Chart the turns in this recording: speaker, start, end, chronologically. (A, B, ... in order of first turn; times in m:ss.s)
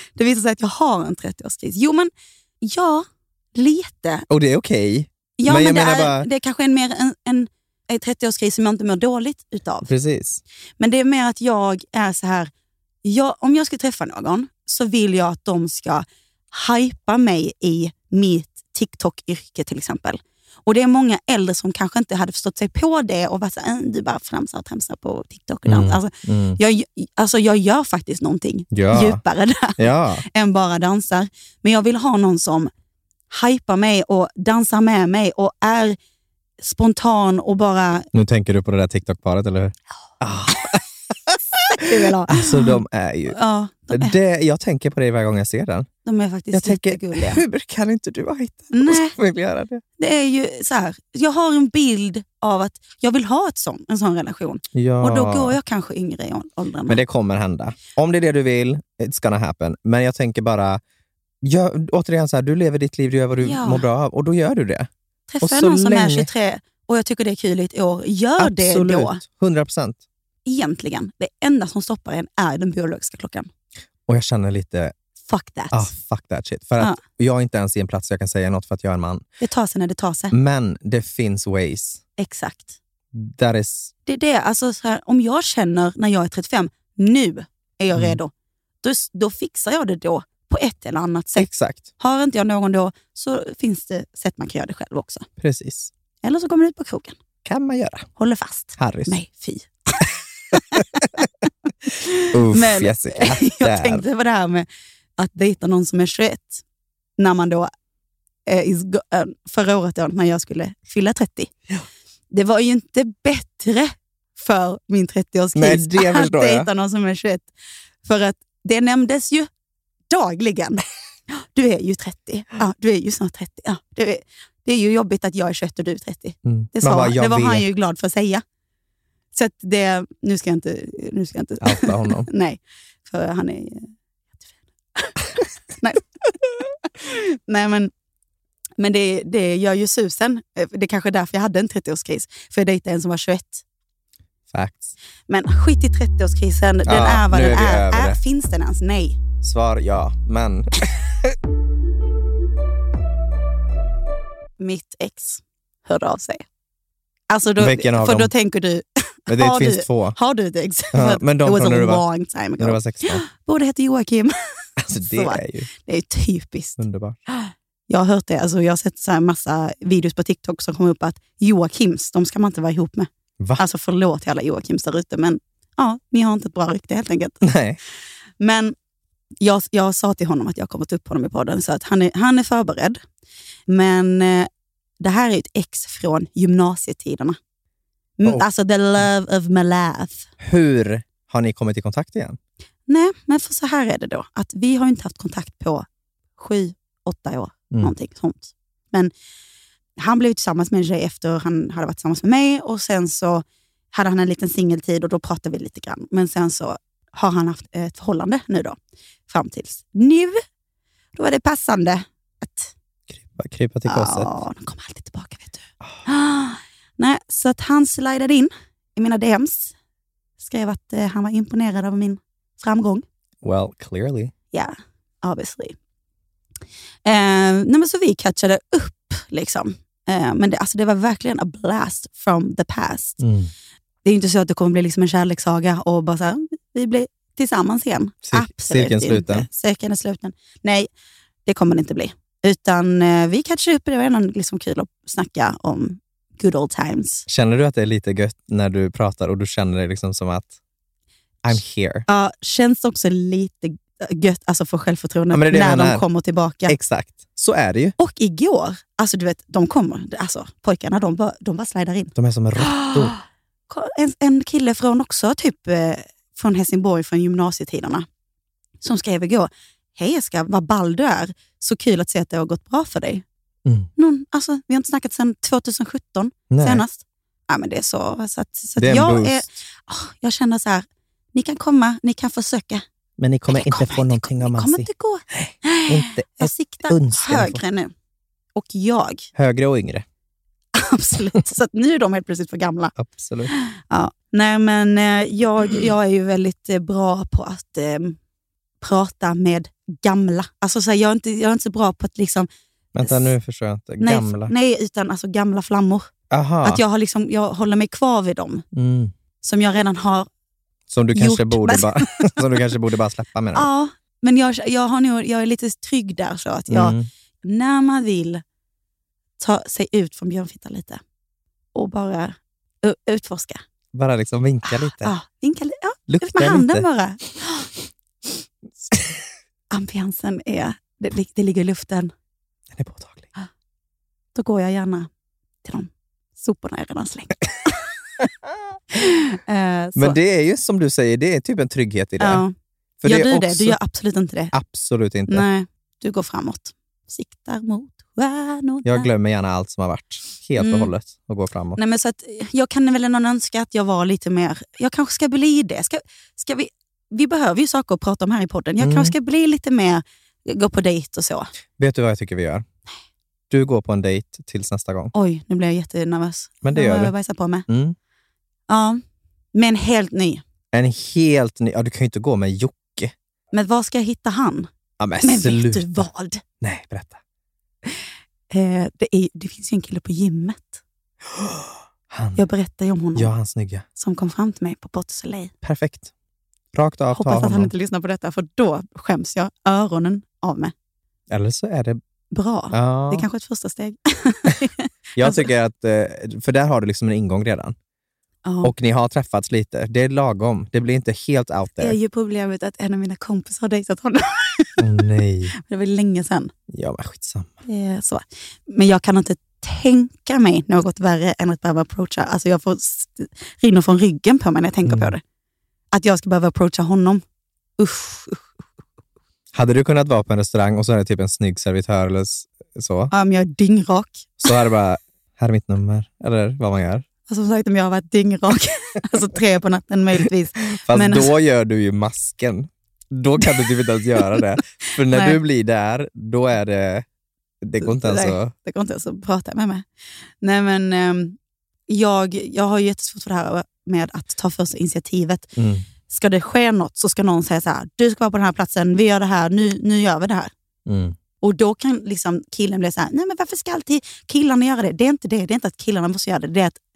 0:00.2-0:04.3 A
0:04.3-0:06.3 B
0:05.4-0:09.9 A
0:09.8-0:10.4 B
0:10.8-0:12.5 A
0:13.0-0:32.7 A
0:25.6-0:26.6 B
0:28.7-0:29.2 B
0:29.8-0:30.2 B
0:33.3-0:36.0 A
0:36.6-0:38.1 A
0:38.1-0:43.4 B
0:41.7-0:44.1 A
0:43.9-0:45.9 B
0:46.0-0:47.4 A
0:46.5-0:49.8 B
0:48.7-0:49.1 A
0:50.0-0:57.0 A
0:54.7-0:55.6 B
0:56.9-1:00.8 B
1:01.4-1:04.9 B
1:03.4-1:03.8 A
1:05.3-1:09.2 A
1:05.4-1:06.3 B
1:08.4-1:10.0 B
1:10.4-1:13.5 A
1:14.1-1:14.9 B
1:15.3-1:15.9 A
1:15.7-1:19.2 B
1:19.4-1:20.3 A
1:20.3-1:22.0 B
1:22.2-1:22.7 A
1:23.1-1:23.9 B
1:24.0-1:28.3 A
1:28.8-1:35.3 A
1:31.4-1:31.8 B
1:35.4-1:35.9 B
1:36.2-1:37.2 A
1:37.4-1:38.1 B
1:38.2-1:41.1 A
1:38.8-1:39.2 B
1:42.0-1:44.6 A
1:42.3-1:44.0 B
1:45.2-1:46.6 A
1:47.2-1:47.7 A
1:48.5-1:51.5 A
1:52.3-1:57.5 A
1:55.5-1:56.7 B
1:58.0-1:59.5 A
2:00.1-2:08.4 A
2:06.4-2:07.6 B
2:09.3-2:13.9 A
2:11.6-2:12.3 B
2:15.0-2:16.3 A
2:17.0-2:17.9 A
2:18.8-2:23.6 A
2:24.5-2:24.9 B
2:25.3-2:29.2 A
2:26.8-2:28.2 B
2:29.4-2:31.4 B
2:34.6-2:36.4 A
2:37.3-2:44.3 A
2:37.6-2:38.3 B
2:39.3-2:40.2 B
2:40.9-2:42.0 B
2:42.6-2:43.2 B
2:44.8-2:45.7 B
2:45.0-2:46.8 A
2:46.8-2:47.2 B
2:47.5-2:57.4 A
2:57.4-2:57.8 B
2:58.4-2:58.7 A
2:59.4-3:03.0 A
3:03.7-3:04.5 A
3:05.0-3:07.4 A
3:08.2-3:10.3 A
3:10.4-3:12.4 B
3:12.9-3:15.8 A
3:16.4-3:19.1 A
3:20.0-3:28.8 A
3:29.3-3:30.4 A
3:31.1-3:32.7 A
3:33.1-3:34.3 B
3:33.8-3:39.7 A
3:40.4-3:43.0 A
3:43.4-3:44.3 B
3:44.5-3:45.7 A
3:47.0-3:53.2 A
3:53.2-3:53.5 B
3:54.0-4:00.9 A
3:58.2-3:59.5 B
4:01.4-4:07.2 A
4:07.3-4:10.5 B
4:11.4-4:12.0 B
4:12.1-4:16.7 A
4:15.3-4:16.0 B
4:16.7-4:18.0 B
4:18.0-4:28.0 A
4:22.1-4:23.1 B
4:28.8-4:33.2 A
4:34.0-4:42.8 A
4:36.5-4:36.8 B
4:38.8-4:39.4 B
4:43.2-4:47.6 B
4:43.5-4:47.9 A
4:48.5-4:49.3 A
4:49.3-4:50.0 B
4:50.7-4:52.9 A
4:53.0-4:53.5 B
4:53.5-4:58.2 A
4:58.8-5:02.5 A
5:02.9-5:04.5 B
5:03.0-5:03.3 A
5:04.0-5:06.1 A
5:06.3-5:06.8 B
5:06.6-5:08.6 A
5:08.7-5:09.1 B
5:09.4-5:10.3 A
5:10.9-5:13.7 B
5:11.1-5:12.6 A
5:13.5-5:18.4 A
5:16.7-5:17.0 B
5:19.4-5:21.0 A
5:21.7-5:23.6 A
5:23.9-5:25.1 B
5:24.7-5:27.7 A
5:26.1-5:26.9 B
5:28.9-5:29.2 B
5:29.7-5:32.1 A
5:32.7-5:33.3 B
5:34.3-5:35.1 A
5:35.6-5:37.8 A
5:38.9-5:40.2 A
5:39.9-5:42.4 B
5:42.2-5:42.5 A
5:43.0-5:43.8 B
5:43.0-5:44.5 A
5:44.5-5:45.5 B
5:45.3-5:49.1 A
5:48.8-5:51.8 B
5:50.6-5:50.9 A
5:51.8-6:01.5 A
5:58.8-5:59.1 B
6:01.8-6:02.6 B
6:03.5-6:05.1 B
6:05.1-6:07.6 A
6:06.6-6:07.1 B
6:07.7-6:08.0 B
6:08.7-6:09.0 A
6:09.5-6:10.4 A
6:10.7-6:13.1 B
6:13.5-6:14.7 A
6:15.0-6:16.1 B
6:15.2-6:16.4 A
6:16.6-6:17.2 B
6:18.5-6:20.8 A
6:21.3-6:22.4 B
6:22.4-6:23.3 A
6:23.1-6:23.8 B
6:24.0-6:25.5 A
6:25.6-6:26.1 B
6:26.7-6:27.7 B
6:27.1-6:30.7 A
6:31.3-6:32.0 B
6:32.3-6:35.5 A
6:32.7-6:33.3 B
6:35.2-6:37.7 B
6:38.4-6:38.7 A
6:38.6-6:42.0 B
6:41.8-6:44.8 A
6:44.8-6:45.5 B
6:45.6-6:46.5 A
6:46.7-6:47.6 B
6:47.6-6:55.2 A
6:54.8-6:55.1 B
6:55.9-6:57.2 A
6:57.8-6:58.4 A
6:59.5-7:03.1 B
7:03.1-7:04.5 A
7:04.4-7:07.0 B
7:07.3-7:11.3 A
7:10.7-7:17.0 B
7:15.1-7:15.4 A
7:17.6-7:18.5 B
7:17.8-7:19.8 A
7:20.4-7:21.4 A
7:21.9-7:25.5 A
7:25.6-7:25.8 B
7:26.1-7:30.5 A
7:30.8-7:31.2 B
7:31.4-7:36.8 A